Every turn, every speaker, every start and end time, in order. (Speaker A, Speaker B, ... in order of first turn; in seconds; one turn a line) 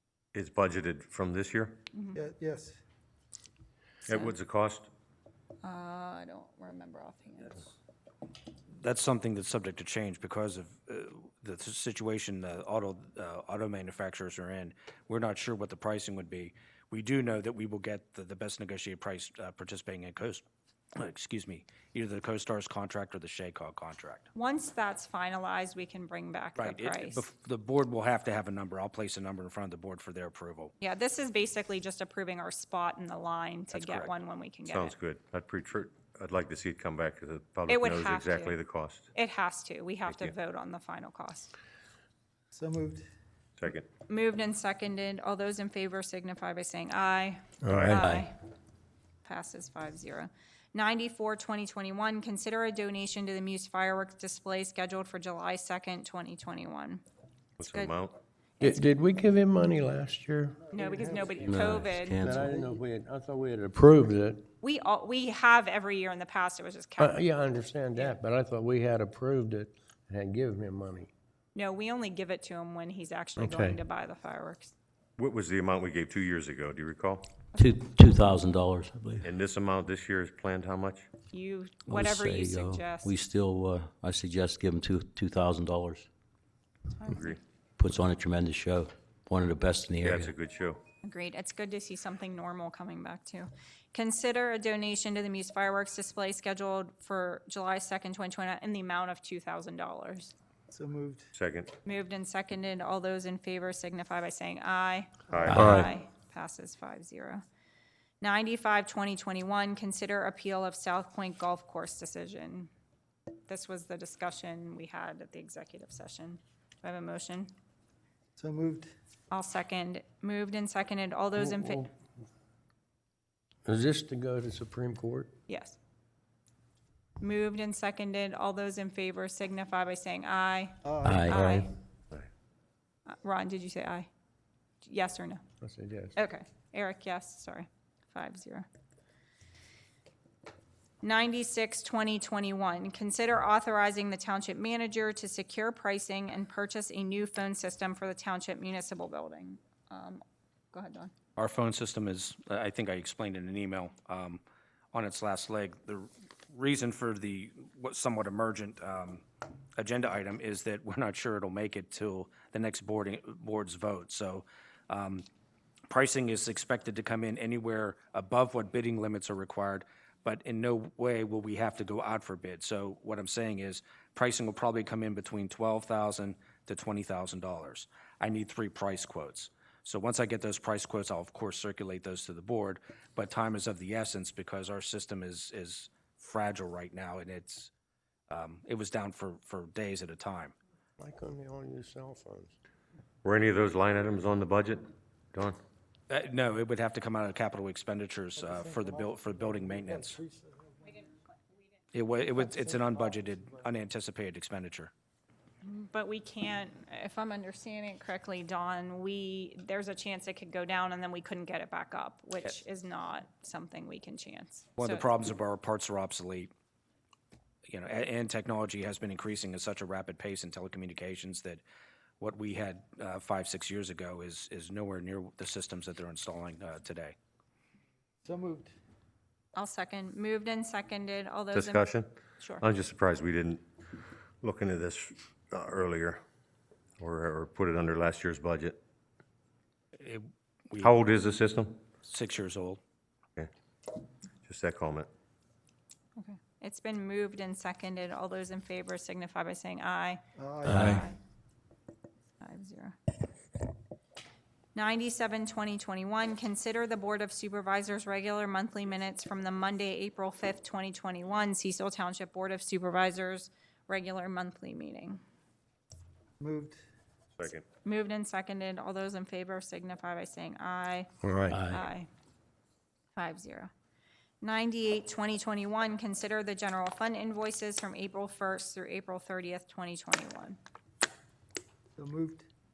Speaker A: 0.3-1.8
Speaker B: 1.9-2.2
Speaker C: 2.1-2.8
Speaker A: 4.0-4.9
Speaker B: 4.1-4.3
Speaker B: 5.6-7.7
Speaker D: 8.7-20.4
Speaker D: 20.9-24.2
Speaker B: 24.3-27.2
Speaker D: 26.6-30.7
Speaker B: 30.8-34.9
Speaker D: 33.7-34.1
Speaker A: 34.6-39.1
Speaker B: 37.7-38.5
Speaker B: 39.1-41.5
Speaker A: 40.1-40.3
Speaker C: 42.5-43.1
Speaker A: 43.6-43.9
Speaker B: 44.1-48.4
Speaker E: 47.6-48.2
Speaker B: 49.2-57.0
Speaker A: 57.6-58.2
Speaker B: 57.6-57.9
Speaker B: 58.6-58.9
Speaker E: 58.6-60.6
Speaker B: 60.7-62.3
Speaker C: 60.7-61.9
Speaker F: 61.4-62.5
Speaker E: 62.2-64.4
Speaker B: 64.6-67.2
Speaker E: 67.0-71.1
Speaker B: 71.5-74.7
Speaker E: 73.4-73.8
Speaker A: 75.2-77.3
Speaker F: 77.6-79.3
Speaker A: 79.2-81.1
Speaker B: 81.3-83.2
Speaker F: 81.9-86.1
Speaker B: 87.0-87.3
Speaker A: 87.0-87.4
Speaker F: 87.8-90.3
Speaker A: 90.0-90.8
Speaker B: 91.0-100.3
Speaker C: 100.7-101.3
Speaker A: 101.3-101.7
Speaker B: 101.8-107.4
Speaker A: 105.3-105.8
Speaker F: 105.5-105.8
Speaker B: 108.2-112.7
Speaker B: 113.5-117.5
Speaker C: 118.4-118.9
Speaker B: 119.3-121.9
Speaker E: 123.7-125.3
Speaker B: 125.5-125.8
Speaker B: 127.2-131.7
Speaker C: 130.8-131.3
Speaker F: 131.0-131.7
Speaker B: 133.1-134.1
Speaker B: 134.8-135.4
Speaker E: 135.6-136.1
Speaker B: 136.2-138.7
Speaker B: 141.0-151.1
Speaker D: 151.4-154.4
Speaker D: 154.9-159.2
Speaker D: 159.8-165.2
Speaker D: 165.9-187.7
Speaker D: 188.3-190.5
Speaker E: 191.0-192.5
Speaker A: 193.2-195.6
Speaker D: 196.1-200.2
Speaker C: 198.4-201.0
Speaker D: 201.9-204.9
Speaker C: 202.5-203.4
Speaker B: 205.6-215.1
Speaker D: 214.8-216.5
Speaker D: 217.7-221.6
Speaker D: 222.2-227.1
Speaker C: 228.2-228.7
Speaker B: 229.6-232.6
Speaker A: 231.5-232.1
Speaker A: 232.6-233.6
Speaker A: 234.4-236.2
Speaker A: 237.0-238.8
Speaker D: 240.0-240.9
Speaker A: 240.8-241.8
Speaker D: 242.1-242.8
Speaker A: 244.4-245.1
Speaker B: 246.2-251.2
Speaker C: 250.4-251.1
Speaker F: 250.6-251.1
Speaker B: 252.4-253.0
Speaker B: 254.7-265.2
Speaker C: 266.4-266.8
Speaker A: 267.4-267.6
Speaker B: 267.8-271.1
Speaker E: 271.2-271.6
Speaker F: 271.5-271.8
Speaker B: 271.6-272.1
Speaker B: 273.1-273.7
Speaker B: 274.4-280.6
Speaker C: 282.0-282.4